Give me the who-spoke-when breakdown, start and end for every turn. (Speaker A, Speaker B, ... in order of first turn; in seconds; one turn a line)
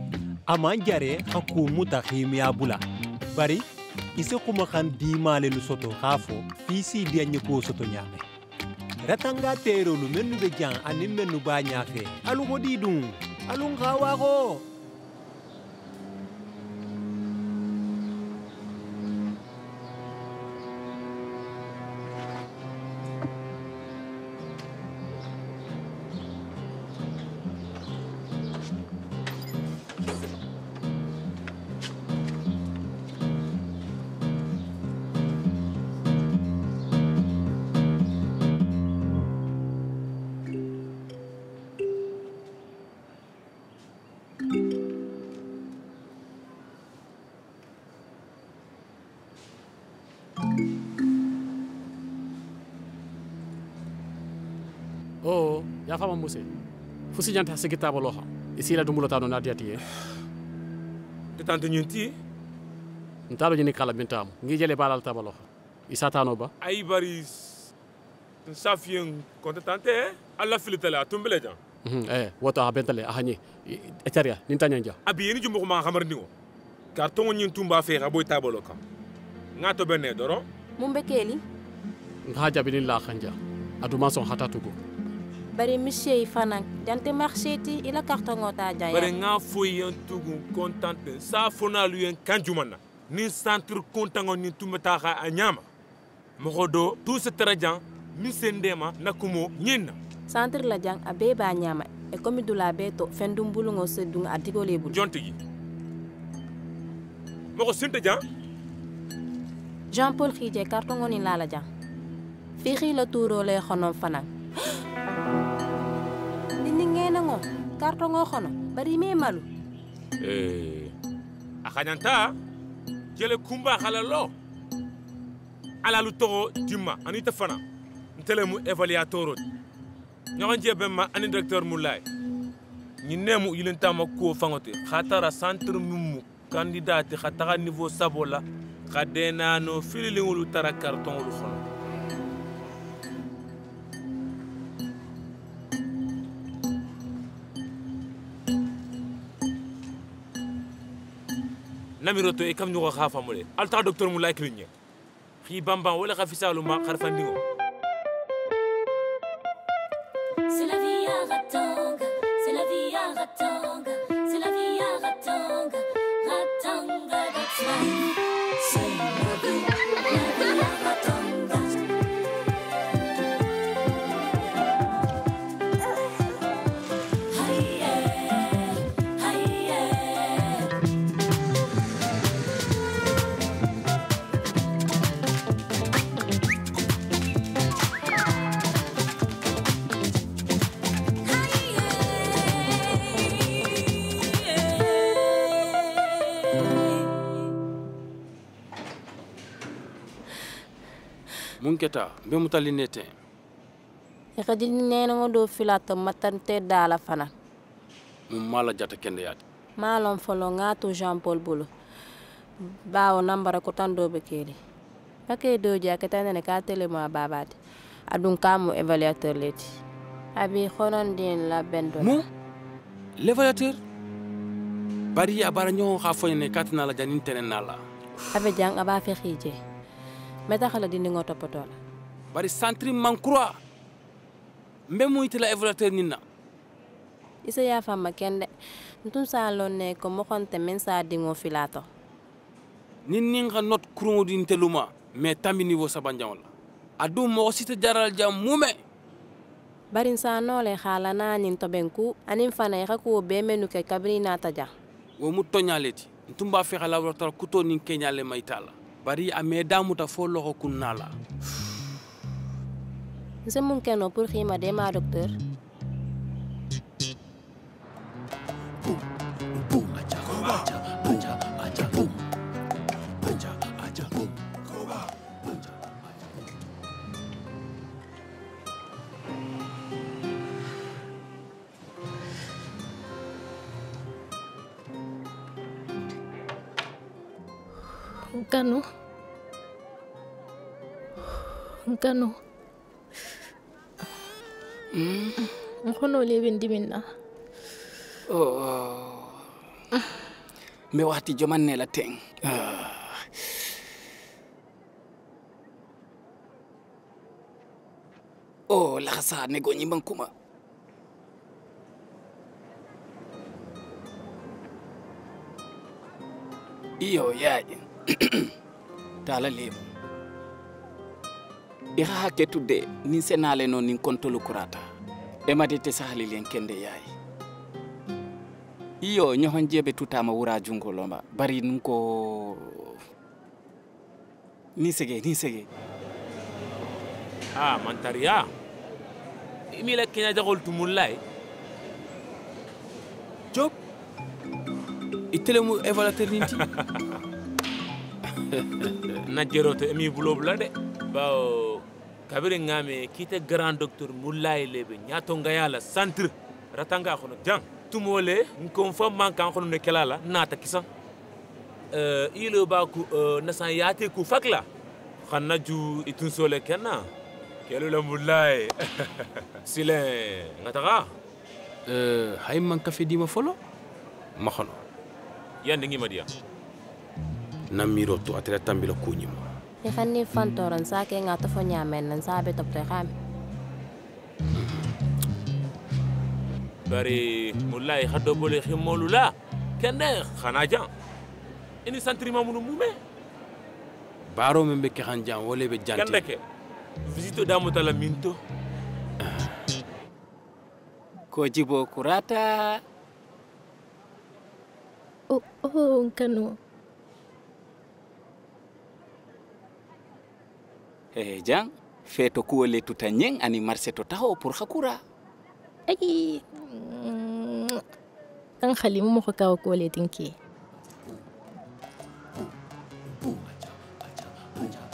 Speaker A: 0.5-2.8
Speaker A: 3.3-3.6
Speaker A: 4.2-8.2
Speaker A: 9.0-14.6
Speaker B: 55.2-56.4
Speaker B: 57.1-59.8
Speaker C: 61.4-62.1
Speaker B: 63.3-66.5
Speaker C: 66.6-67.7
Speaker C: 68.5-71.6
Speaker B: 71.8-75.0
Speaker C: 75.0-76.3
Speaker C: 76.9-78.8
Speaker C: 79.6-80.4
Speaker D: 80.8-81.4
Speaker B: 82.3-84.8
Speaker D: 85.5-89.1
Speaker C: 88.9-95.6
Speaker C: 96.4-100.0
Speaker D: 100.3-105.0
Speaker C: 104.9-105.3
Speaker C: 107.5-108.2
Speaker D: 109.9-111.7
Speaker D: 112.6-114.3
Speaker D: 116.6-119.5
Speaker C: 120.2-120.9
Speaker C: 121.6-122.3
Speaker C: 123.2-124.3
Speaker C: 125.8-127.6
Speaker C: 128.2-129.4
Speaker C: 130.4-132.0
Speaker C: 133.0-141.6
Speaker C: 152.0-154.7
Speaker C: 155.4-157.4
Speaker E: 160.5-171.7
Speaker E: 177.3-180.6
Speaker F: 201.6-203.1
Speaker D: 204.4-207.3
Speaker F: 208.3-209.4
Speaker D: 209.8-211.7
Speaker D: 212.9-214.6
Speaker D: 215.3-217.5
Speaker D: 218.1-219.7
Speaker D: 220.3-222.2
Speaker F: 222.0-222.2
Speaker F: 223.2-223.8
Speaker F: 225.1-227.8
Speaker D: 228.3-229.6
Speaker D: 230.5-231.8
Speaker F: 232.3-233.6
Speaker F: 234.9-236.2
Speaker D: 237.4-238.5
Speaker D: 239.1-241.8
Speaker F: 243.1-246.5
Speaker F: 247.0-248.8
Speaker D: 249.9-254.7
Speaker F: 255.2-261.1
Speaker D: 263.5-265.3
Speaker F: 269.8-272.1
Speaker F: 273.2-274.3
Speaker G: 288.3-288.8
Speaker G: 291.9-292.4
Speaker H: 294.9-295.4
Speaker G: 295.4-297.0
Speaker H: 298.3-299.4
Speaker H: 300.9-303.4
Speaker H: 308.7-310.3
Speaker H: 317.0-318.5
Speaker H: 319.2-319.9
Speaker H: 322.0-324.8
Speaker H: 325.5-327.1
Speaker H: 329.0-333.0
Speaker H: 334.8-335.7
Speaker C: 337.6-338.5
Speaker C: 339.7-341.2
Speaker F: 345.3-346.7
Speaker C: 346.6-347.0
Speaker F: 348.3-349.2
Speaker C: 349.2-360.9
Speaker C: 361.9-364.6
Speaker C: 365.3-367.0
Speaker C: 367.7-371.1
Speaker F: 371.9-373.6
Speaker F: 374.4-374.8
Speaker C: 375.6-376.3
Speaker F: 377.7-379.4
Speaker D: 379.8-383.1
Speaker F: 384.5-384.9
Speaker C: 386.9-390.9
Speaker C: 391.9-392.9
Speaker F: 394.3-396.2
Speaker C: 395.9-396.4
Speaker C: 397.1-398.4
Speaker F: 399.2-399.6
Speaker H: 401.3-402.8
Speaker G: 405.3-406.5
Speaker H: 411.1-415.0
Speaker G: 415.9-417.8
Speaker G: 418.6-420.3